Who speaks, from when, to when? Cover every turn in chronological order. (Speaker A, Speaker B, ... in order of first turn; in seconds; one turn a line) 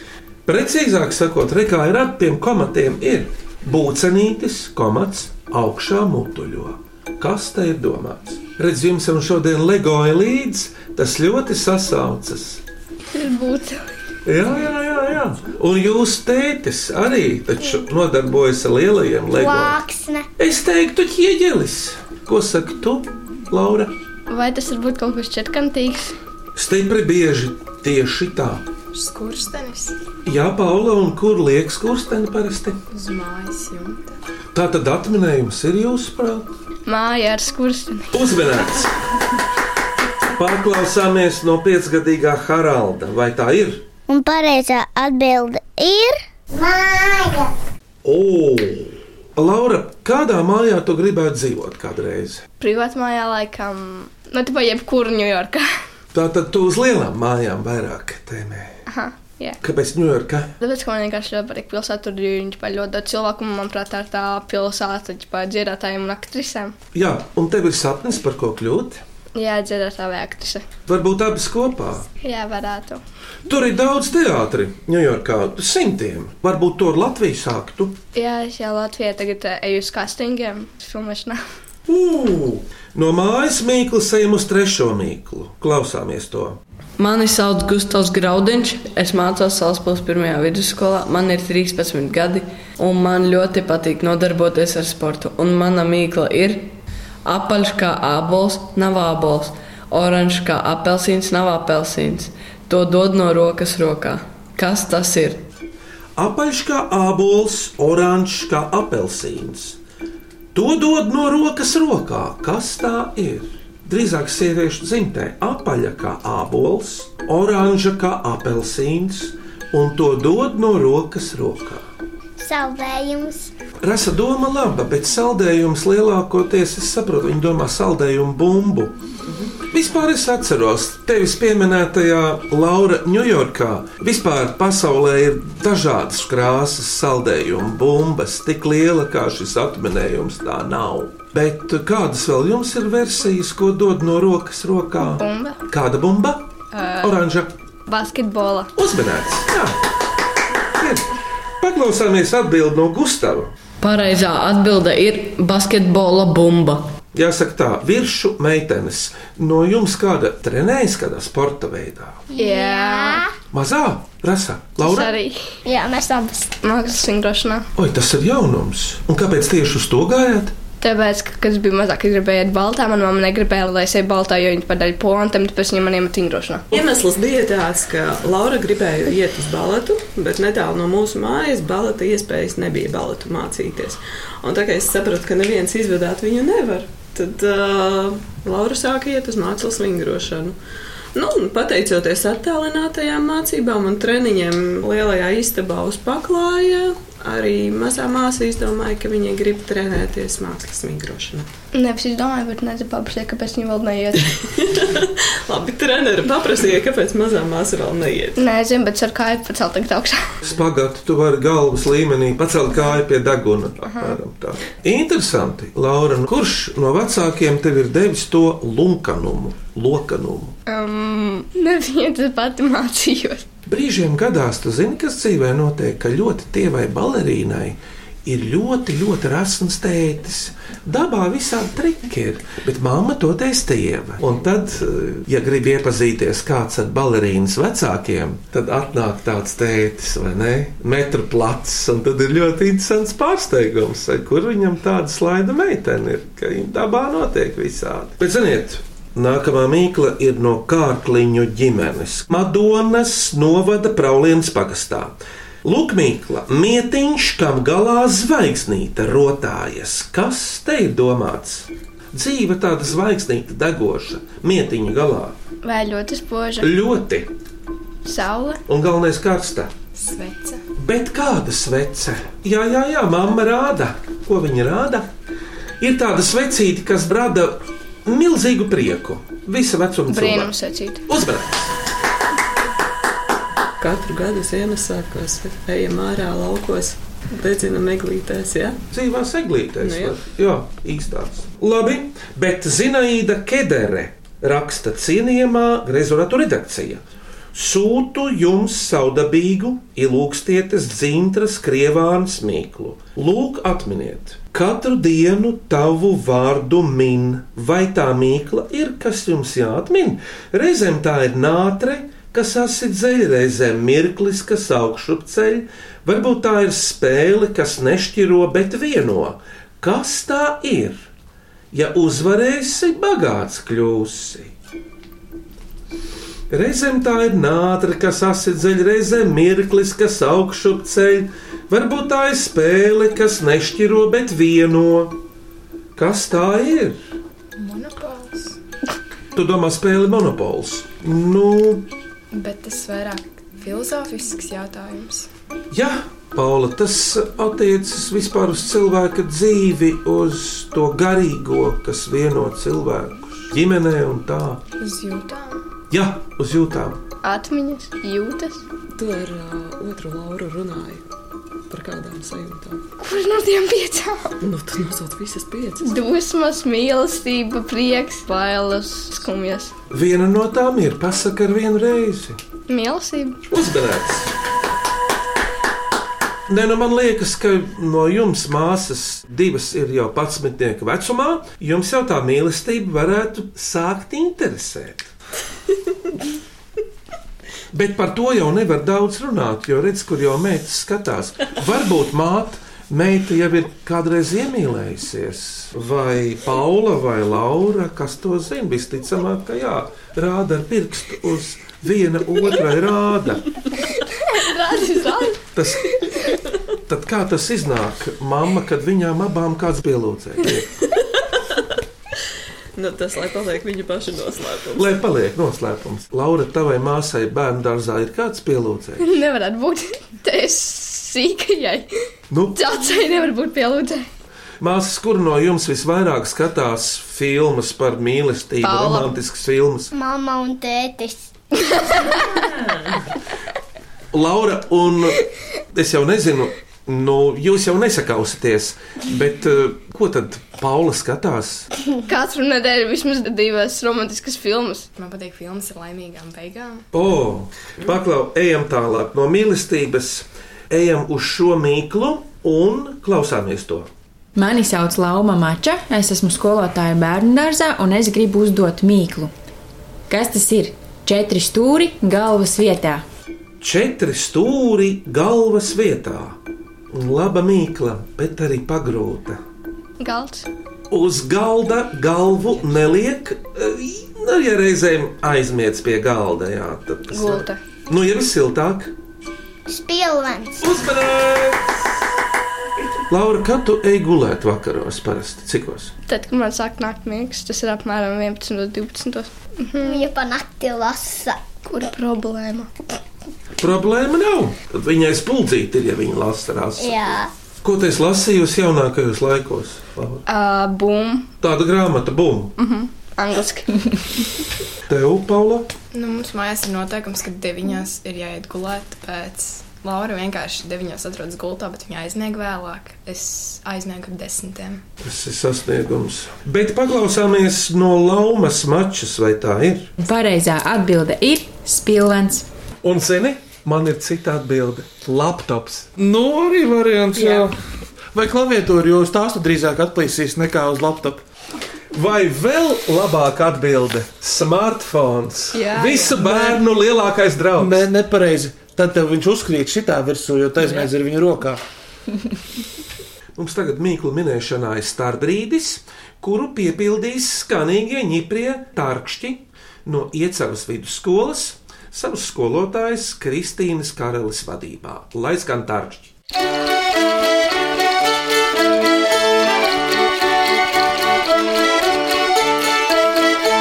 Speaker A: 0.5-12.6
Speaker B: 13.1-13.8
Speaker A: 14.2-19.8
Speaker C: 19.3-20.3
Speaker A: 20.4-23.9
Speaker B: 24.3-26.1
Speaker A: 26.6-28.7
Speaker D: 28.9-30.0
Speaker A: 30.2-32.8
Speaker D: 32.9-34.2
Speaker A: 34.5-36.5
Speaker B: 36.9-38.1
Speaker A: 38.1-38.9
Speaker A: 40.3-43.9
Speaker C: 44.1-47.5
Speaker A: 48.0-52.4
Speaker B: 52.6-55.6
Speaker A: 56.1-58.8
Speaker B: 58.9-59.6
Speaker A: 59.6-60.5
Speaker B: 60.6-66.7
Speaker A: 66.9-69.0
Speaker B: 69.3-70.6
Speaker A: 70.9-72.1
Speaker B: 72.2-73.0
Speaker A: 73.5-78.0
Speaker B: 78.1-81.4
Speaker A: 81.9-86.6
Speaker E: 87.0-105.5
Speaker A: 106.2-109.8
Speaker A: 110.5-121.9
Speaker C: 122.4-123.5
Speaker A: 123.8-129.0
Speaker A: 129.7-146.5
Speaker B: 145.2-145.6
Speaker B: 146.7-147.1
Speaker A: 147.0-147.5
Speaker B: 147.9-148.7
Speaker A: 148.8-149.8
Speaker A: 150.7-151.1
Speaker A: 151.6-153.5
Speaker E: 153.8-156.8
Speaker A: 157.1-162.2
Speaker C: 162.3-163.3
Speaker B: 162.4-163.2
Speaker A: 163.5-165.1
Speaker B: 164.8-165.4
Speaker C: 165.6-166.5
Speaker B: 166.6-167.7
Speaker A: 167.7-170.5
Speaker B: 170.8-176.7
Speaker F: 176.7-190.6
Speaker F: 191.1-201.4
Speaker B: 201.7-204.3
Speaker F: 204.6-208.4
Speaker B: 208.4-210.2
Speaker A: 210.4-220.5
Speaker B: 213.8-214.2
Speaker B: 220.7-223.4
Speaker A: 223.7-265.4
Speaker B: 265.6-266.7
Speaker A: 266.6-267.3
Speaker B: 268.0-268.6
Speaker A: 268.7-269.7
Speaker D: 269.9-270.6
Speaker A: 270.8-275.1
Speaker A: 275.8-280.5
Speaker B: 280.1-281.0
Speaker A: 281.1-281.7
Speaker F: 283.8-288.8
Speaker A: 288.9-297.0
Speaker F: 289.8-290.2
Speaker A: 297.5-321.1
Speaker A: 321.7-324.5
Speaker A: 326.5-335.2
Speaker A: 335.9-337.0
Speaker D: 337.6-338.6
Speaker A: 339.3-341.9
Speaker D: 342.3-345.3
Speaker A: 345.7-354.6
Speaker D: 354.8-355.6
Speaker A: 355.9-357.0
Speaker B: 357.2-358.6
Speaker F: 358.9-361.0
Speaker F: 361.7-362.8
Speaker B: 363.0-364.4
Speaker F: 364.4-365.9
Speaker B: 365.8-369.7
Speaker A: 369.9-372.4
Speaker B: 372.7-373.4
Speaker A: 373.5-374.3
Speaker A: 376.5-385.1
Speaker A: 387.7-403.5
Speaker B: 404.2-405.4
Speaker A: 405.5-405.9
Speaker A: 406.9-410.7
Speaker F: 412.7-414.9
Speaker A: 414.7-419.1
Speaker B: 419.0-421.9
Speaker A: 422.3-422.6
Speaker B: 422.5-424.1
Speaker A: 424.6-429.9
Speaker B: 428.6-429.1
Speaker C: 429.9-431.3
Speaker A: 434.1-435.2
Speaker A: 435.7-441.7
Speaker B: 442.1-444.9
Speaker D: 444.9-446.9
Speaker A: 446.9-453.9
Speaker G: 454.3-459.3
Speaker G: 460.1-463.0
Speaker A: 463.6-466.4
Speaker A: 466.9-469.4
Speaker B: 470.0-470.4
Speaker A: 470.9-478.9
Speaker B: 477.1-477.6
Speaker C: 479.7-480.7
Speaker A: 480.6-481.7
Speaker A: 483.1-485.9
Speaker B: 486.1-490.0
Speaker C: 489.8-491.4
Speaker B: 491.6-492.7
Speaker A: 493.6-497.0
Speaker C: 496.8-497.3
Speaker A: 497.6-500.2
Speaker B: 500.2-501.3
Speaker A: 501.4-502.5
Speaker B: 502.6-504.2
Speaker A: 504.9-505.7
Speaker D: 505.9-514.8
Speaker A: 515.0-519.9
Speaker G: 520.0-522.5
Speaker A: 522.8-527.5
Speaker H: 527.1-527.5
Speaker B: 527.2-527.4
Speaker H: 528.1-531.2
Speaker A: 531.9-537.8
Speaker B: 535.5-536.1
Speaker H: 536.1-536.6
Speaker H: 537.6-541.6
Speaker A: 543.3-556.1